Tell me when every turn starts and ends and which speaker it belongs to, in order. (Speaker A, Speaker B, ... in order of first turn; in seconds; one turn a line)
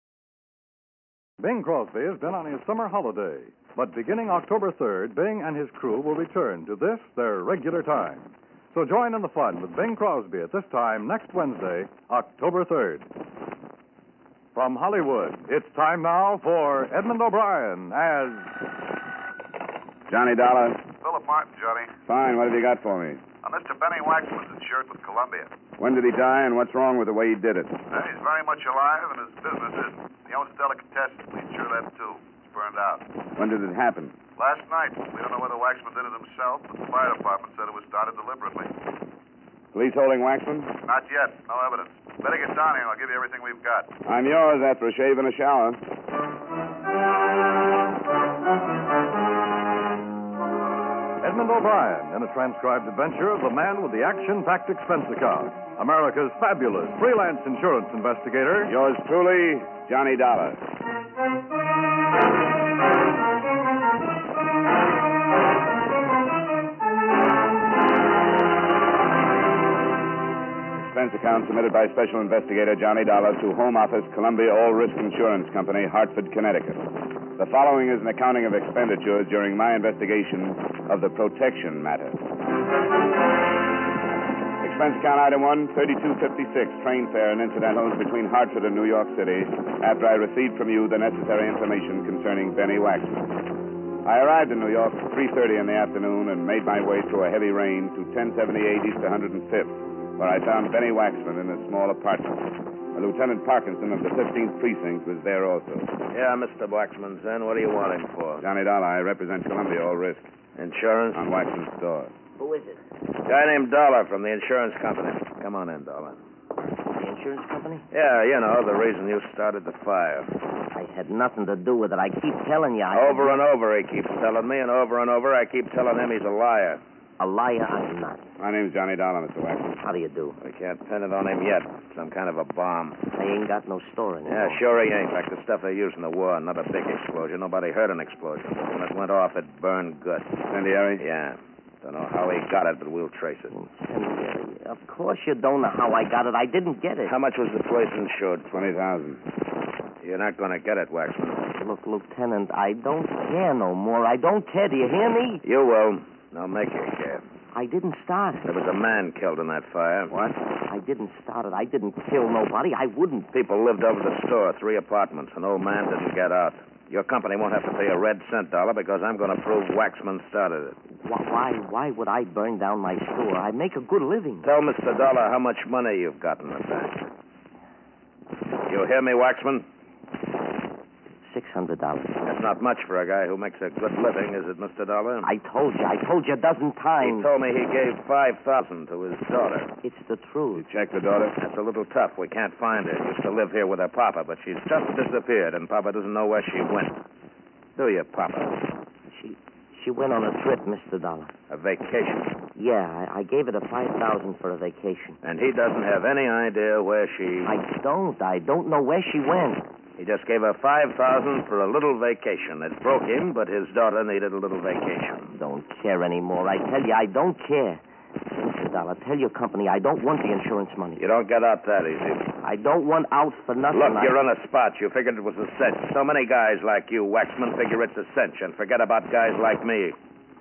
Speaker A: 1.4-13.1
Speaker A: 14.5-18.5
Speaker B: 20.1-20.8
Speaker C: 21.0-21.9
Speaker B: 22.1-23.2
Speaker C: 23.4-25.5
Speaker B: 25.8-27.8
Speaker C: 27.9-33.1
Speaker B: 33.4-34.2
Speaker C: 34.4-38.7
Speaker B: 39.7-40.8
Speaker C: 40.8-43.9
Speaker B: 44.0-45.8
Speaker A: 51.2-58.7
Speaker B: 58.6-60.6
Speaker B: 70.8-82.2
Speaker B: 84.6-93.4
Speaker B: 94.0-105.9
Speaker D: 106.1-108.4
Speaker B: 108.4-110.3
Speaker D: 110.5-111.2
Speaker B: 111.1-112.1
Speaker E: 112.4-112.8
Speaker D: 113.2-116.2
Speaker E: 117.0-117.8
Speaker D: 117.9-120.3
Speaker E: 120.7-123.4
Speaker D: 122.9-126.8
Speaker E: 127.2-128.2
Speaker B: 128.4-129.8
Speaker E: 129.8-130.4
Speaker D: 130.4-133.0
Speaker E: 133.1-134.6
Speaker D: 134.3-140.3
Speaker B: 140.5-141.0
Speaker D: 141.0-143.5
Speaker E: 143.5-147.1
Speaker D: 147.1-148.5
Speaker B: 148.5-149.2
Speaker D: 150.0-151.5
Speaker E: 151.6-155.4
Speaker D: 155.4-157.2
Speaker E: 157.5-158.5
Speaker D: 158.5-160.1
Speaker E: 160.7-163.3
Speaker D: 163.3-170.8
Speaker E: 171.0-174.5
Speaker D: 174.4-177.1
Speaker D: 178.7-179.7
Speaker E: 181.2-182.2
Speaker D: 182.2-185.3
Speaker E: 185.2-187.3
Speaker D: 187.0-189.7
Speaker E: 189.8-190.7
Speaker B: 190.5-191.4
Speaker D: 191.4-197.0
Speaker D: 197.8-198.6
Speaker E: 199.1-201.3
Speaker D: 201.5-202.4
Speaker E: 202.6-205.2
Speaker D: 205.2-207.6
Speaker E: 207.4-209.6
Speaker D: 210.0-215.3
Speaker E: 215.3-217.8
Speaker E: 218.4-221.0
Speaker D: 221.0-222.3
Speaker E: 222.4-224.2
Speaker D: 223.7-230.0